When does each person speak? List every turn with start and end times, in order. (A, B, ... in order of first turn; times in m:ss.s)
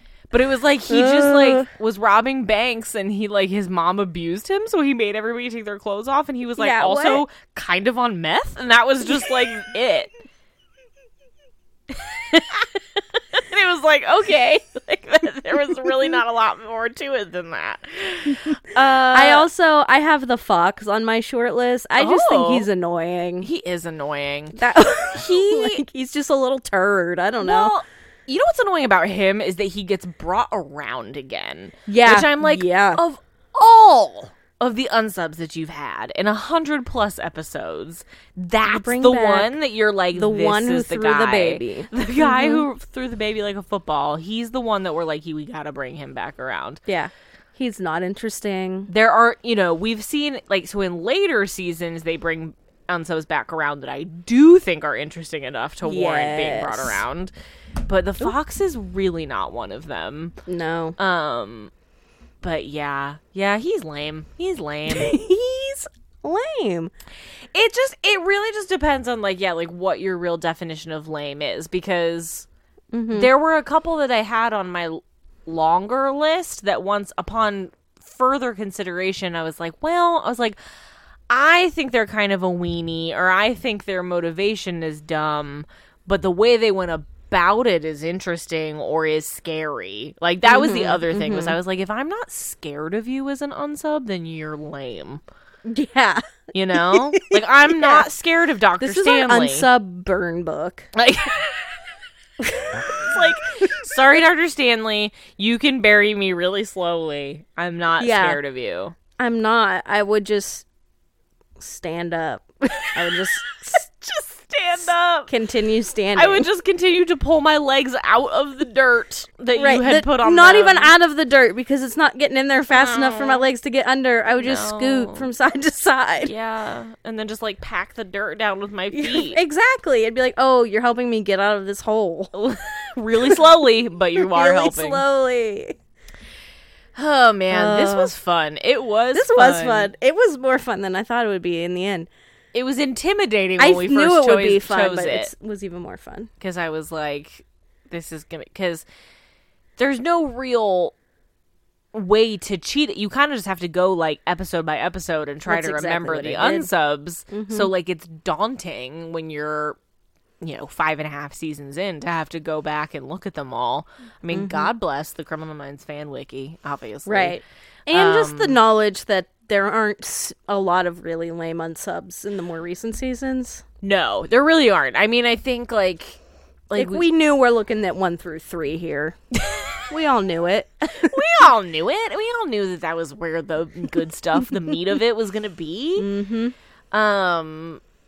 0:00.3-0:10.1 A
0:00.9-0:01.7 B
0:06.6-0:07.2 B
0:11.9-0:19.5 A
0:19.1-0:23.5 B
0:22.0-0:22.7 A
0:23.4-0:25.8 A
0:24.5-0:27.7 B
0:27.4-0:46.8 A
0:31.9-0:33.0 B
0:38.6-0:39.5 B
0:40.1-0:42.6 B
0:46.8-0:48.9 B
0:48.9-0:57.3 A
0:55.8-0:57.0 B
0:57.8-1:00.3 A
1:00.5-1:01.0 B
1:01.0-1:01.7 A
1:02.4-1:05.1 A
1:04.9-1:06.9 B
1:07.5-1:12.5 A
1:12.9-1:13.3 B
1:13.1-1:20.6 A
1:21.3-1:35.2 A
1:30.4-1:31.6 B
1:35.6-1:36.2 B
1:36.5-1:39.7 A
1:36.7-1:38.0 B
1:38.8-1:40.9 B
1:40.9-1:41.7 A
1:42.4-1:48.9 A
1:48.0-1:48.4 B
1:49.2-1:50.6 B
1:51.6-1:53.8 B
1:52.7-1:55.3 A
1:55.3-1:56.5 B
1:56.1-2:00.9 A
1:59.5-2:06.3 B
2:02.7-2:03.5 A
2:04.3-2:05.3 A
2:06.2-2:09.4 A
2:08.9-2:12.3 B
2:12.3-2:15.0 A
2:14.2-2:15.7 B
2:16.9-2:19.9 A
2:17.5-2:18.1 B
2:19.1-2:22.1 B
2:22.5-2:25.3 A
2:23.6-2:26.3 B
2:26.4-2:28.8 A
2:29.8-2:30.9 A
2:31.9-2:39.8 A
2:35.4-2:36.7 B
2:37.3-2:37.7 B
2:40.4-2:47.4 A
2:44.3-2:44.7 B
2:47.0-2:53.6 B
2:47.9-2:48.6 A
2:53.8-2:57.0 A
2:56.7-2:59.2 B
2:59.5-2:59.8 A
2:59.9-3:01.2 B
3:01.0-3:06.1 A
3:06.0-3:06.5 B
3:06.9-3:07.8 A